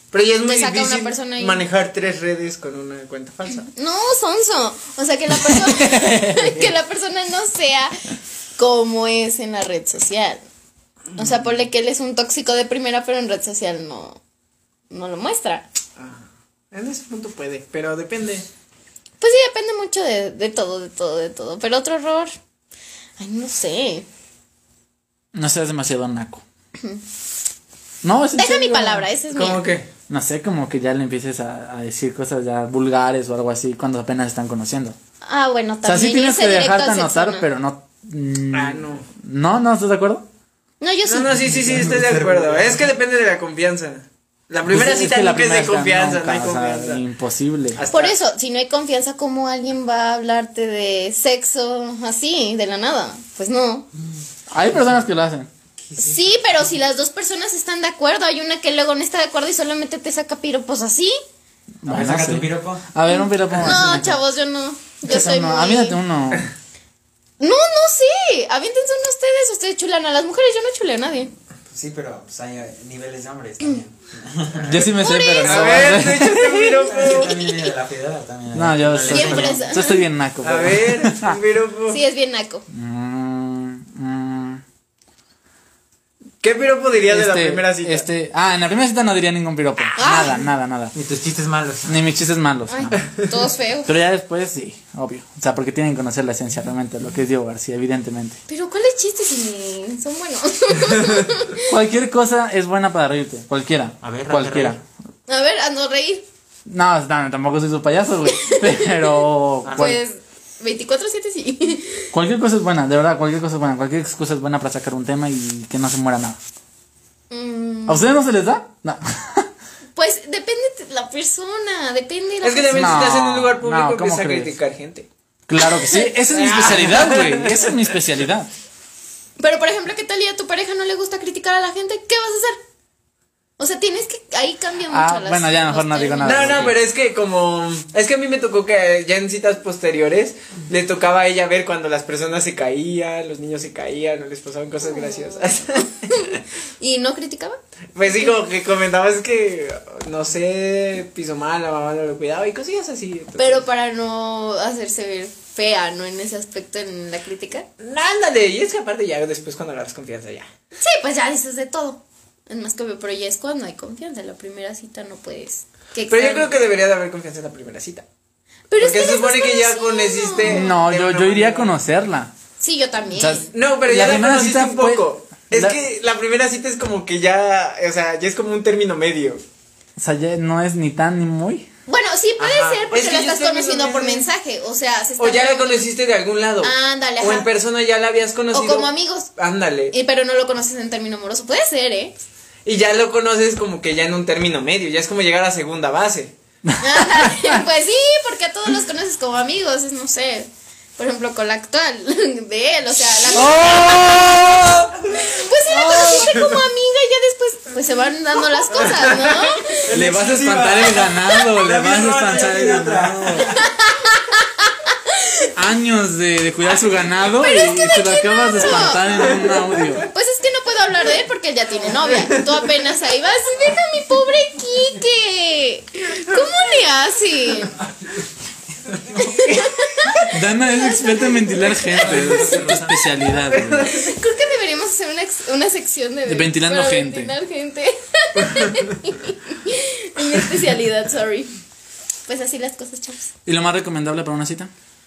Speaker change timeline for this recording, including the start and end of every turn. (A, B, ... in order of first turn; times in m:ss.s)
0:00.1-0:03.7 A
0:00.4-0:01.6 B
0:03.8-0:08.0 B
0:05.4-0:06.7 C
0:08.6-0:10.4 B
0:11.2-0:14.2 B
0:14.9-0:15.7 B
0:16.0-0:18.5 A
0:19.2-0:22.3 B
0:23.2-0:24.1 B
0:25.3-0:26.4 C
0:28.0-0:29.1 C
0:28.4-0:29.7 B
0:29.3-0:29.9 A
0:30.1-0:35.0 C
0:35.2-0:37.5 B
0:35.8-0:40.2 C
0:38.5-0:39.0 A
0:40.8-0:41.4 B
0:41.0-0:47.0 A
0:41.4-0:42.0 C
0:41.7-0:42.8 D
0:44.7-0:47.8 C
0:47.8-0:48.2 A
0:47.9-0:53.9 B
0:54.5-0:55.5 C
0:55.8-0:56.7 D
0:56.0-1:01.2 B
1:01.8-1:04.2 C
1:01.8-1:02.9 D
1:03.1-1:06.0 B
1:05.0-1:06.5 C
1:07.4-1:11.3 B
1:11.7-1:14.9 D
1:14.6-1:16.6 C
1:15.0-1:17.7 B
1:15.4-1:17.4 A
1:16.9-1:19.7 D
1:18.5-1:21.4 C
1:19.1-1:20.0 B
1:20.4-1:22.0 A
1:21.9-1:22.6 B
1:22.7-1:24.6 C
1:26.4-1:28.1 A
1:27.1-1:31.0 C
1:30.0-1:30.4 B
1:31.0-1:32.0 D
1:31.9-1:33.0 C
1:32.7-1:33.9 B
1:33.9-1:38.4 C
1:38.5-1:41.7 B
1:41.7-1:44.8 C
1:44.0-1:44.8 D
1:45.3-1:46.2 B
1:46.7-1:50.0 C
1:48.3-1:49.2 B
1:49.6-1:50.0 D
1:49.8-1:52.1 B
1:52.1-1:56.4 C
1:57.3-1:58.1 B
1:57.9-1:59.5 C
2:00.0-2:03.0 B
2:02.4-2:05.1 A
2:02.7-2:04.5 C
2:05.5-2:08.5 C
2:05.7-2:06.3 B
2:06.3-2:07.7 A
2:09.4-2:12.6 B
2:13.6-2:16.7 B
2:14.9-2:16.8 C
2:16.2-2:26.4 A
2:24.8-2:27.6 B
2:28.0-2:33.6 A
2:33.4-2:37.7 B
2:37.8-2:40.5 A
2:40.8-2:46.5 B
2:46.1-2:48.0 A
2:48.7-2:50.7 B
2:48.8-2:51.8 A
2:50.4-2:52.3 C
2:52.6-2:53.5 B
2:53.2-2:55.8 C
2:53.5-2:59.4 A
3:00.0-3:01.7 C
3:01.9-3:05.9 B
3:02.4-3:04.3 A
3:05.2-3:10.0 A
3:06.6-3:07.5 B
3:08.5-3:09.3 B
3:09.9-3:12.2 B
3:12.6-3:16.4 A
3:16.7-3:17.6 C
3:16.8-3:24.2 B
3:23.3-3:24.9 C
3:25.1-3:29.8 B
3:25.7-3:26.6 A
3:28.6-3:29.5 A
3:29.8-3:33.6 C
3:29.9-3:33.4 D
3:30.8-3:31.1 A
3:33.4-3:35.5 B
3:35.6-3:40.0 C
3:37.3-3:47.8 B
3:39.1-3:40.0 A
3:49.2-3:52.5 B
3:50.2-3:53.9 C
3:51.9-3:53.8 D
3:53.5-3:54.0 A
3:53.8-4:01.5 B
3:56.3-3:57.3 C
4:02.3-4:03.3 B
4:03.5-4:04.7 C